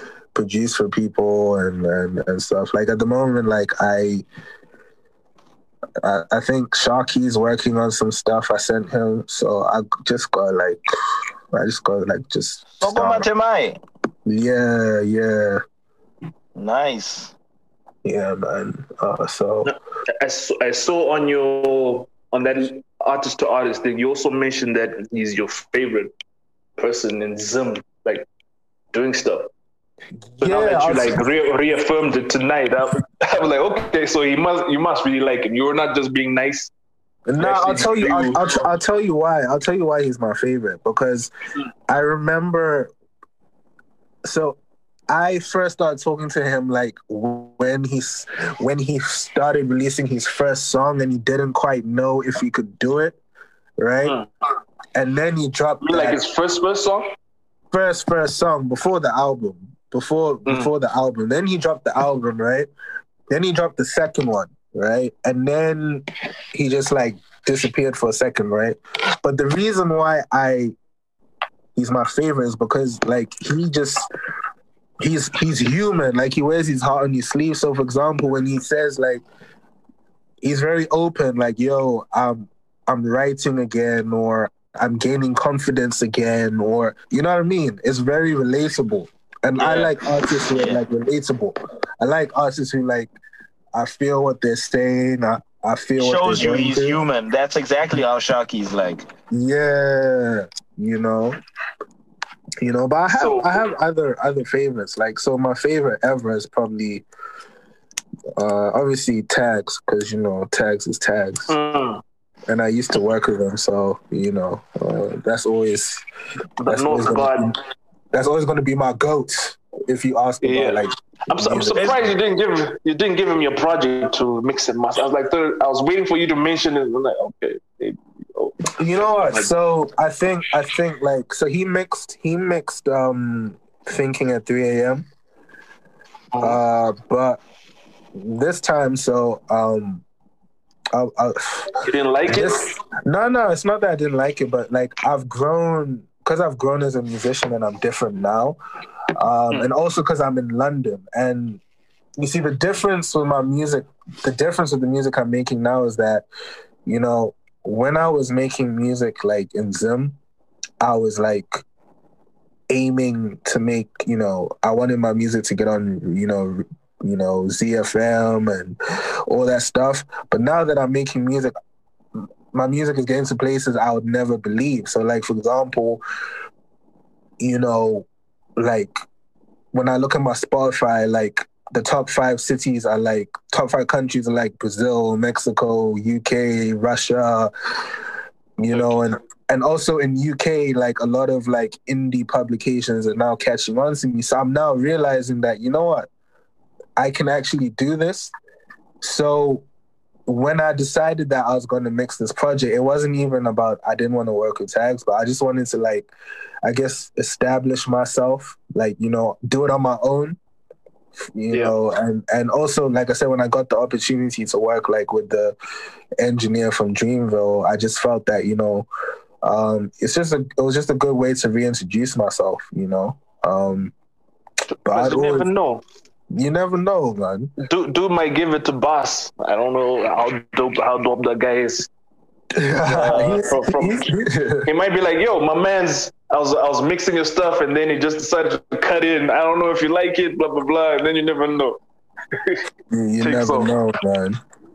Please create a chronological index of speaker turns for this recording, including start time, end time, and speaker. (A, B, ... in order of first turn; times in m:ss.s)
0:00.3-0:04.2 A
0:06.0-0:10.8 A
0:11.5-0:13.3 A
0:12.8-0:13.8 B
0:14.3-0:15.6 A
0:16.6-0:17.3 B
0:18.0-0:19.8 A
0:19.6-0:26.1 C
0:26.8-0:28.3 C
0:28.9-0:29.5 C
0:30.4-0:31.2 A
0:30.4-0:36.7 C
0:37.3-0:41.3 A
0:37.4-0:38.5 C
0:41.9-0:42.9 A
0:44.2-0:44.6 A
0:45.1-0:53.2 A
0:53.8-0:54.2 A
0:54.0-0:54.3 C
0:55.0-0:56.2 A
0:55.8-0:57.1 C
0:57.7-1:02.7 A
1:03.3-1:10.7 A
1:11.8-1:14.1 A
1:15.0-1:19.2 A
1:20.4-1:33.1 A
1:29.6-1:29.9 B
1:30.4-1:30.8 B
1:33.7-1:37.0 A
1:36.0-1:39.1 B
1:39.3-1:41.4 A
1:42.6-1:47.0 A
1:43.1-1:43.6 C
1:48.4-1:51.5 A
1:51.5-1:52.0 C
1:52.5-1:56.0 A
1:56.6-1:57.5 C
1:56.7-1:57.6 A
1:58.1-2:02.2 A
2:00.4-2:08.6 C
2:08.8-2:15.1 A
2:09.2-2:09.5 C
2:16.3-2:16.6 C
2:16.4-2:17.4 A
2:18.2-2:20.0 A
2:20.9-2:21.7 A
2:21.8-2:22.6 C
2:22.2-2:28.6 A
2:29.2-2:31.6 A
2:32.2-2:36.3 A
2:36.9-2:40.2 A
2:40.8-2:41.6 A
2:42.7-2:51.5 A
2:52.5-2:56.0 A
2:57.4-2:59.0 A
2:59.7-3:07.5 A
3:08.6-3:16.1 A
3:17.0-3:18.3 A
3:19.0-3:19.6 A
3:20.3-3:26.1 A
3:26.6-3:30.4 A
3:31.3-3:35.6 A
3:36.2-3:38.9 A
3:39.4-3:43.9 A
3:44.8-3:45.5 A
3:44.9-3:45.8 C
3:46.3-3:47.5 A
3:47.6-3:51.9 C
3:52.6-3:54.7 A
3:52.9-3:54.1 C
3:54.7-4:01.8 C
4:02.4-4:02.6 C
4:02.9-4:04.4 A
4:03.2-4:03.7 C